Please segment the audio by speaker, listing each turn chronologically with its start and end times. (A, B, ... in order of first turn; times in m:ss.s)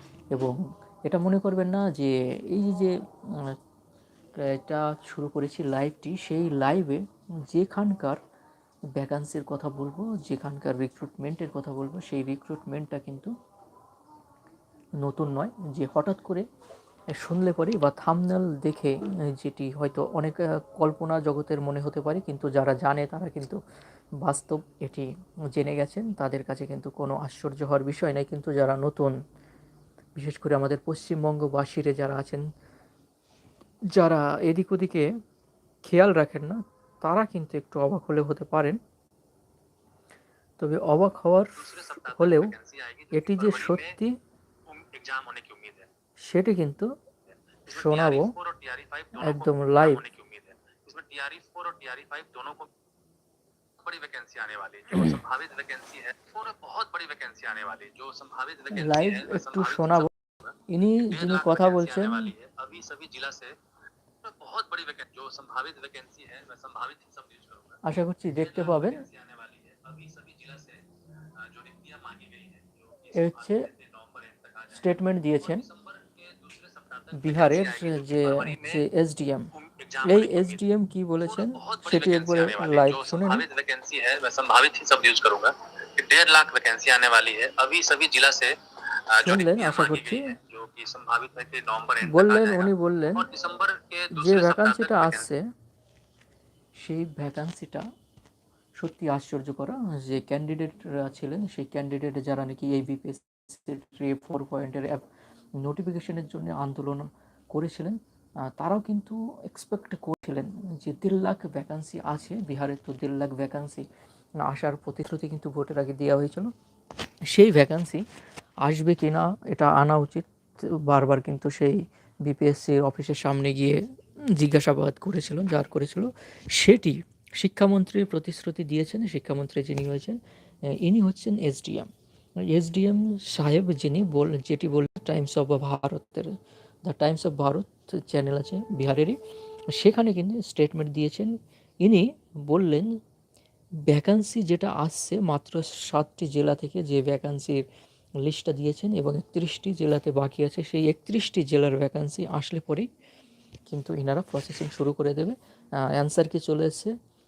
0:01.0-0:03.6 A
0:04.4-0:08.2 A
0:08.9-0:13.3 A
0:15.0-0:16.4 A
0:17.1-0:23.6 A
0:24.2-0:29.1 A
0:30.2-0:32.4 A
0:33.9-0:35.1 A
0:35.8-0:38.8 A
0:40.6-0:42.5 A
0:41.6-0:44.0 B
0:43.1-0:44.1 A
0:44.7-0:45.9 B
0:46.2-0:46.9 A
0:47.6-0:52.7 B
0:47.7-0:48.3 A
0:49.2-0:50.0 A
0:53.8-1:00.5 B
0:58.7-1:00.1 A
1:00.7-1:02.3 A
1:01.0-1:03.5 B
1:04.2-1:07.8 B
1:07.8-1:09.0 A
1:08.4-1:10.8 B
1:11.4-1:18.8 B
1:13.1-1:13.7 A
1:14.7-1:15.6 A
1:17.1-1:19.5 A
1:19.5-1:20.6 B
1:20.0-1:23.4 A
1:21.2-1:28.5 B
1:29.1-1:35.3 B
1:29.2-1:30.3 A
1:32.0-1:33.3 A
1:34.1-1:35.4 A
1:36.8-1:37.8 A
1:38.8-1:45.0 A
1:45.6-1:48.0 A
1:48.6-1:53.8 A
1:54.4-1:56.5 A
1:57.3-1:58.0 A
1:58.6-2:03.8 A
2:04.4-2:10.2 A
2:10.8-2:11.9 A
2:12.4-2:16.3 A
2:16.9-2:19.2 A
2:19.7-2:22.9 A
2:23.9-2:27.6 A
2:28.2-2:32.9 A
2:33.7-2:36.9 A